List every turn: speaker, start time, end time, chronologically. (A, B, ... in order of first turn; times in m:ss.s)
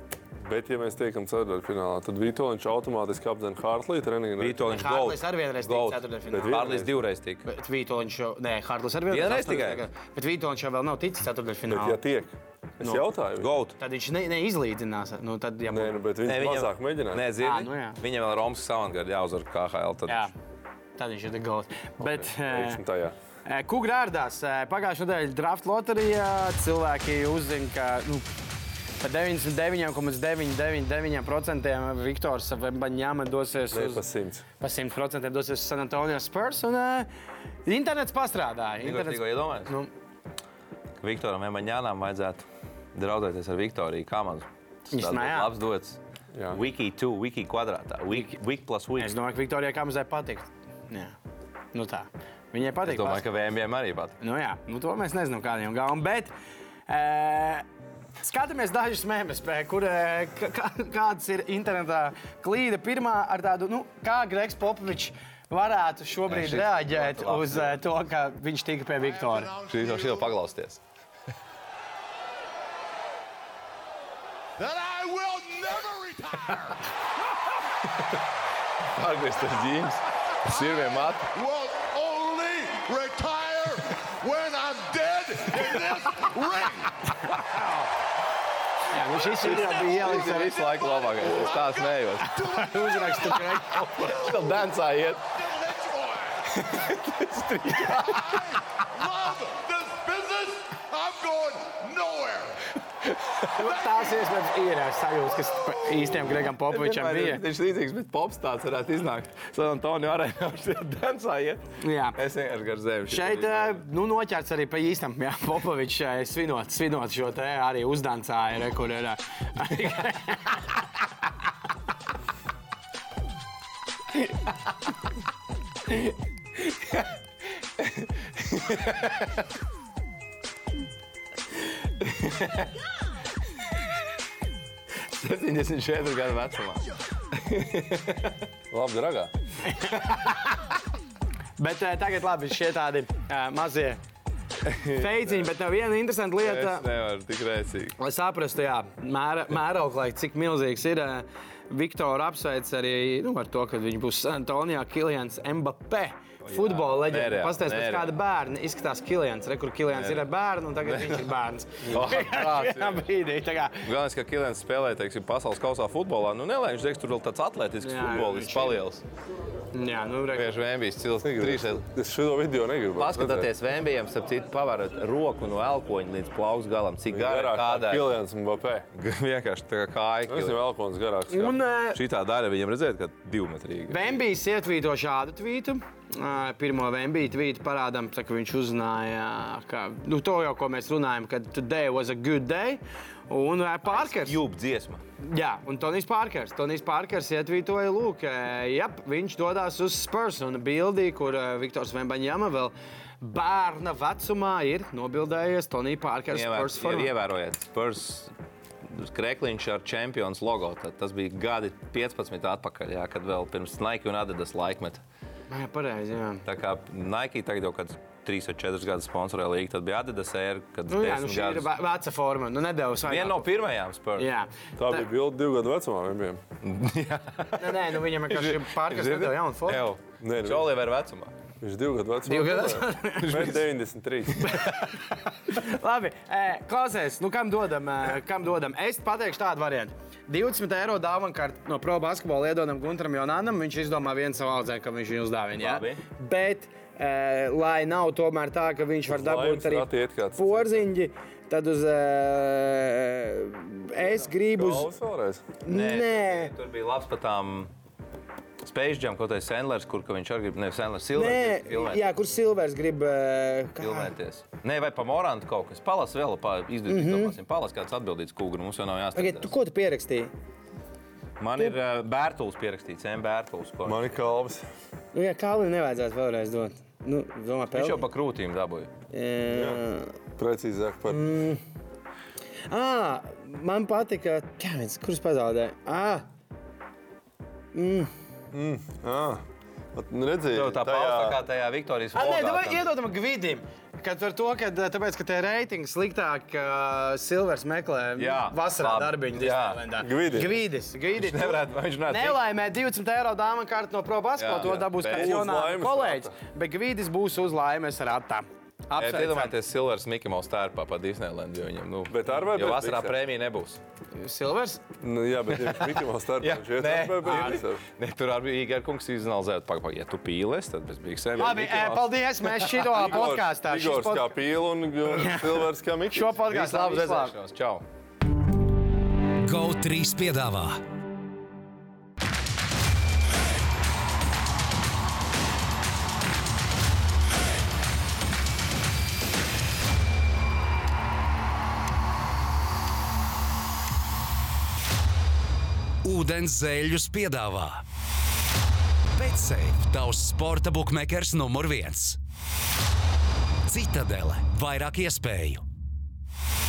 0:00.4-0:04.7 A
0:04.4-0:07.4 B
0:04.6-0:06.7 C
0:06.3-0:06.9 A
0:07.4-0:12.0 C
0:09.1-0:09.8 B
0:11.7-0:13.5 A
0:12.8-0:13.1 C
0:13.4-0:13.8 B
0:13.8-0:16.1 C
0:15.7-0:17.2 A
0:16.2-0:20.3 B
0:17.4-0:18.0 C
0:20.0-0:20.3 C
0:21.0-0:22.8 C
0:22.0-0:23.2 A
0:23.4-0:28.3 C
0:29.0-0:34.0 C
0:33.7-0:34.4 A
0:34.6-0:37.1 C
0:37.6-0:39.9 C
0:38.8-0:39.7 B
0:41.0-0:46.0 B
0:44.9-0:45.5 C
0:46.3-0:46.6 A
0:46.5-0:49.1 B
0:49.0-0:51.1 C
0:51.7-0:53.2 C
0:52.8-0:54.2 B
0:54.2-0:56.3 C
0:56.9-0:57.6 C
0:58.2-1:09.7 C
1:06.3-1:07.8 B
1:09.5-1:10.8 B
1:14.8-1:16.0 D
1:16.2-1:16.7 B
1:18.9-1:21.6 B
1:21.8-1:23.5 D
1:23.6-1:23.9 B
1:24.4-1:26.8 B
1:25.7-1:27.8 C
1:28.9-1:30.8 C
1:29.3-1:36.0 B
1:32.2-1:34.7 C
1:36.5-1:38.6 C
1:36.7-1:38.5 B
1:39.0-1:40.3 B
1:41.0-1:42.4 B
1:43.4-1:47.4 C
1:46.1-1:53.8 B
1:51.8-1:52.2 C
1:53.1-2:00.7 C
2:06.7-2:07.0 B
2:07.8-2:09.4 B
2:12.0-2:12.7 B
2:15.2-2:18.4 B
2:18.7-2:19.3 A
2:19.6-2:20.6 C
2:21.6-2:24.0 C
2:24.6-2:25.3 B
2:24.9-2:26.8 C
2:26.4-2:28.0 B
2:28.0-2:43.9 C
2:36.4-2:38.2 B
2:39.9-2:40.3 B
2:40.8-2:41.3 B
2:41.8-2:42.1 A
2:41.9-2:43.1 B
2:43.8-2:49.0 B
2:47.8-2:48.8 C
2:49.7-2:50.6 C
2:50.3-2:51.8 B
2:51.2-2:53.5 A
2:53.0-2:58.1 B
2:57.1-2:58.8 A
2:58.9-3:00.6 B
3:00.3-3:01.6 A
3:01.3-3:02.0 C
3:01.9-3:04.2 B
3:03.9-3:14.4 C
3:13.9-3:15.0 B
3:15.2-3:27.1 C
3:26.3-3:28.3 B
3:28.9-3:35.0 B
3:35.5-3:36.4 C
3:36.4-3:41.7 B
3:40.9-3:43.6 C
3:43.1-3:44.3 B
3:44.2-3:45.0 C
3:44.8-3:46.4 A
3:46.6-3:51.3 B
3:47.6-3:49.8 C
3:50.2-3:50.7 A
3:51.6-3:54.5 A
3:52.2-3:53.5 C
3:53.2-3:53.6 B
3:54.4-3:54.8 B
3:54.4-4:14.9 C
4:05.6-4:06.0 B
4:09.1-4:10.8 A
4:14.5-4:15.5 A
4:15.6-4:16.5 C
4:15.7-4:17.7 B
4:18.6-4:22.0 B
4:21.1-4:24.1 C
4:23.8-4:29.5 B
4:26.9-4:27.4 C
4:29.1-4:30.3 C
4:31.4-4:34.1 B
4:33.8-4:34.6 A
4:35.1-4:38.0 C
4:37.7-4:38.9 B
4:39.1-4:40.1 C
4:39.5-4:39.8 A
4:40.4-4:41.2 A
4:41.0-4:41.6 C
4:42.7-4:46.3 C
4:47.7-4:48.1 C
4:48.5-4:51.4 A
4:50.5-4:52.9 B
4:52.1-5:09.5 C
4:58.2-4:59.9 B
5:00.0-5:00.6 A
5:01.2-5:02.4 B
5:04.4-5:05.4 B
5:05.1-5:06.3 A
5:09.0-5:13.8 B
5:12.1-5:13.2 A
5:14.1-5:14.8 C
5:15.0-5:17.8 A
5:15.7-5:22.9 B
5:21.4-5:24.3 C
5:22.9-5:26.3 A
5:25.0-5:27.3 C
5:26.4-5:27.8 B
5:29.4-5:30.8 E
5:46.0-5:47.8 E
5:49.1-5:52.2 E
5:53.7-5:55.6 E